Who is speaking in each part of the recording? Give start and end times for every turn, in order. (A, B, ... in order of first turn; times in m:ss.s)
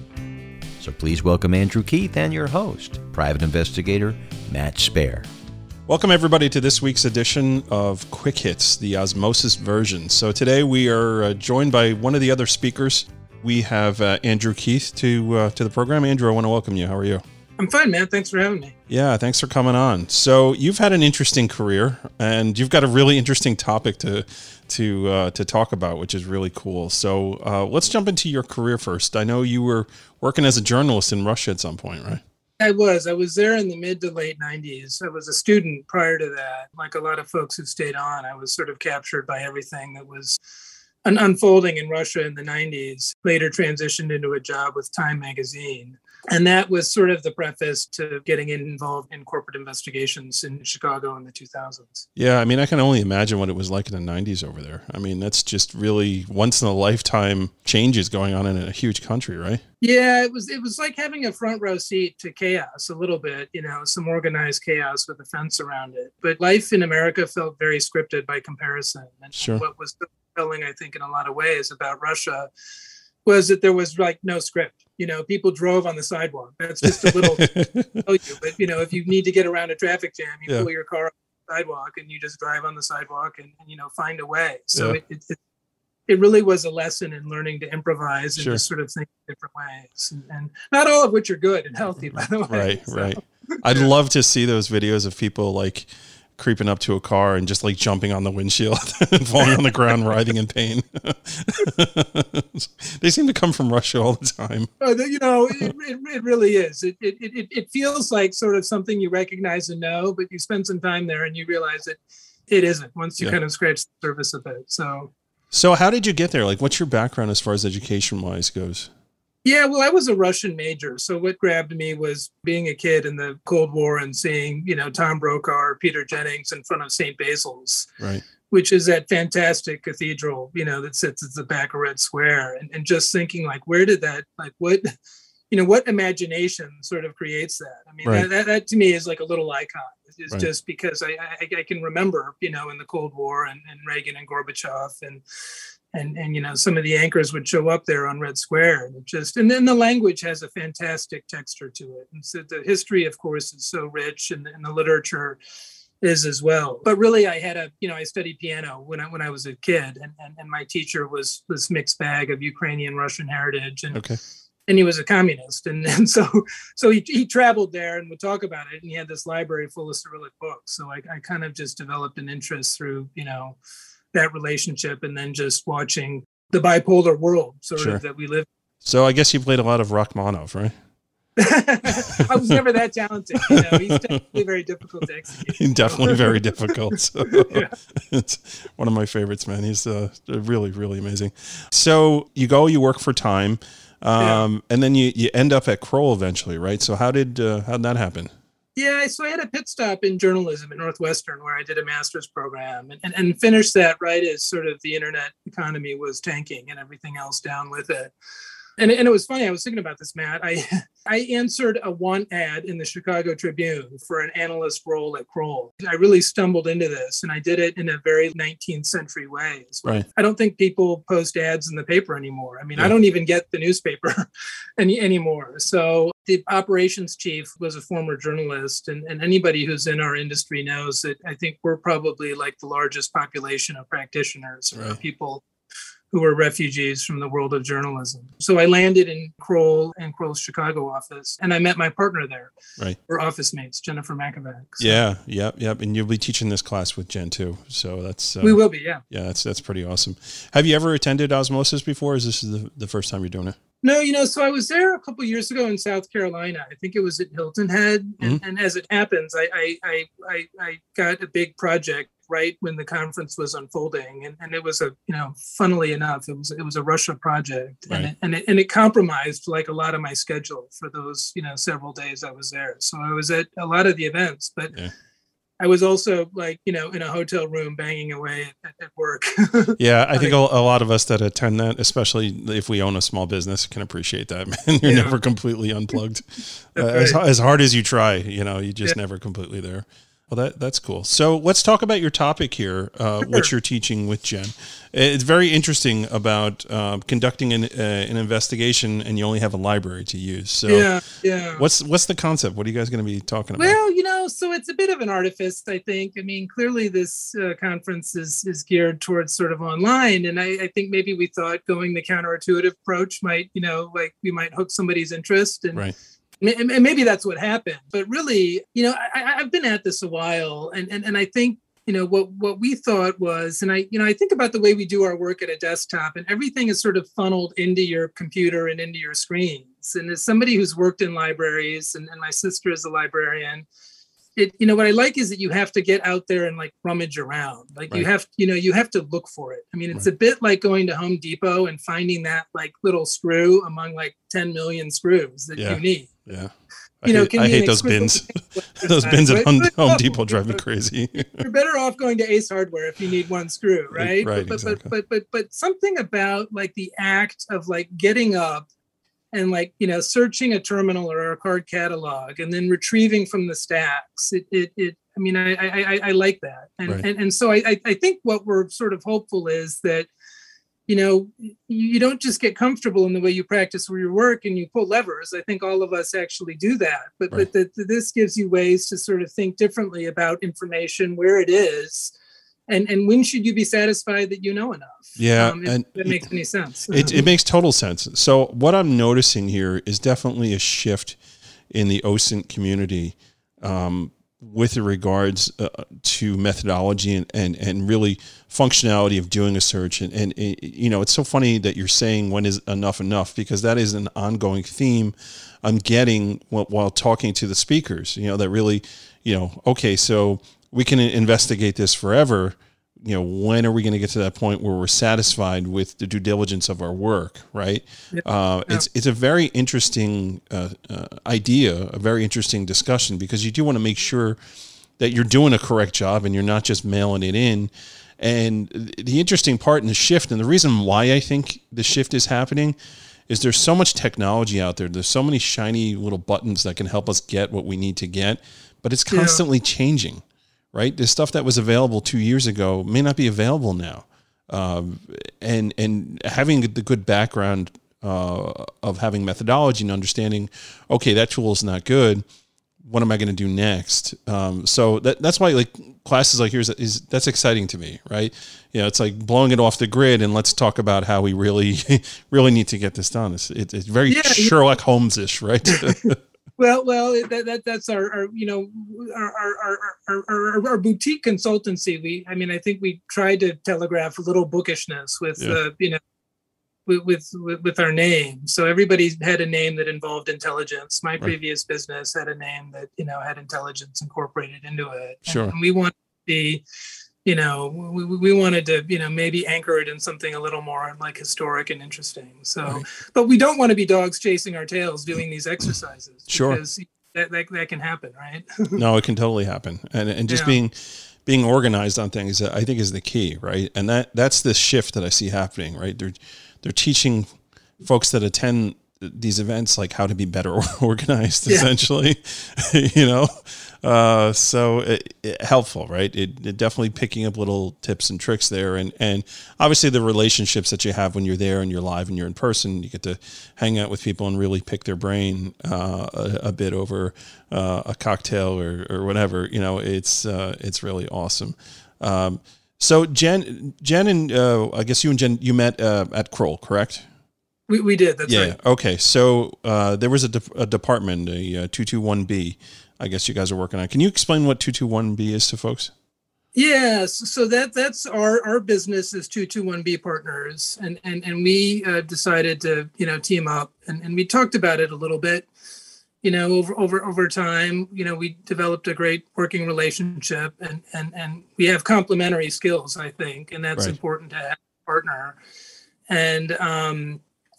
0:00.8-0:05.3 A
0:05.9-0:17.2 B
0:17.6-0:18.8 C
0:18.9-0:32.2 B
0:32.6-0:40.4 C
0:41.0-0:52.1 C
0:52.2-0:59.6 B
0:59.8-1:12.5 C
1:09.4-1:09.6 B
1:13.2-1:25.4 C
1:16.8-1:18.0 B
1:26.1-1:33.9 C
1:28.4-1:28.6 B
1:32.5-1:44.7 B
1:44.8-1:55.1 C
1:55.5-1:58.9 B
1:59.4-2:07.9 C
2:08.0-2:08.2 B
2:08.5-2:14.8 C
2:15.5-2:25.2 C
2:25.9-2:35.4 C
2:36.0-2:44.0 C
2:43.9-2:44.2 B
2:44.7-2:53.6 C
2:54.1-2:58.5 C
2:57.8-2:58.0 B
2:58.8-3:00.8 B
3:01.4-3:06.8 C
3:01.8-3:02.6 B
3:03.4-3:04.4 B
3:05.5-3:18.3 B
3:07.3-3:07.7 C
3:14.2-3:14.4 C
3:18.8-3:28.1 C
3:28.8-3:55.4 C
3:54.7-3:55.0 B
3:56.1-4:05.0 C
4:04.8-4:13.6 B
4:08.4-4:09.0 C
4:13.8-4:34.7 C
4:35.6-4:40.4 C
4:39.8-5:00.9 B
4:44.8-4:45.2 C
4:46.8-4:47.2 C
5:00.7-5:01.7 C
5:01.5-5:03.8 B
5:03.6-5:15.9 C
5:16.4-5:33.6 C
5:34.4-5:46.3 C
5:45.6-5:51.4 B
5:47.0-5:50.6 C
5:51.4-5:58.7 C
5:53.9-5:54.9 B
5:59.3-6:10.1 C
6:10.9-6:22.1 C
6:22.7-6:27.3 C
6:25.2-6:26.3 B
6:26.9-6:31.2 B
6:31.7-7:04.4 B
6:58.1-6:58.9 C
7:05.0-7:12.8 B
7:13.3-7:32.2 B
7:19.1-7:19.4 C
7:32.8-7:46.2 B
7:44.1-7:44.5 C
7:45.7-7:46.0 C
7:46.6-7:56.0 C
7:56.9-8:06.6 C
8:05.2-8:05.5 B
8:07.2-8:18.8 C
8:16.3-8:16.6 B
8:18.8-8:27.3 B
8:20.3-8:20.6 C
8:27.8-8:57.0 B
8:57.7-8:58.6 C
8:58.2-9:05.9 B
9:06.5-9:15.5 C
9:16.2-9:25.4 C
9:26.1-9:27.2 C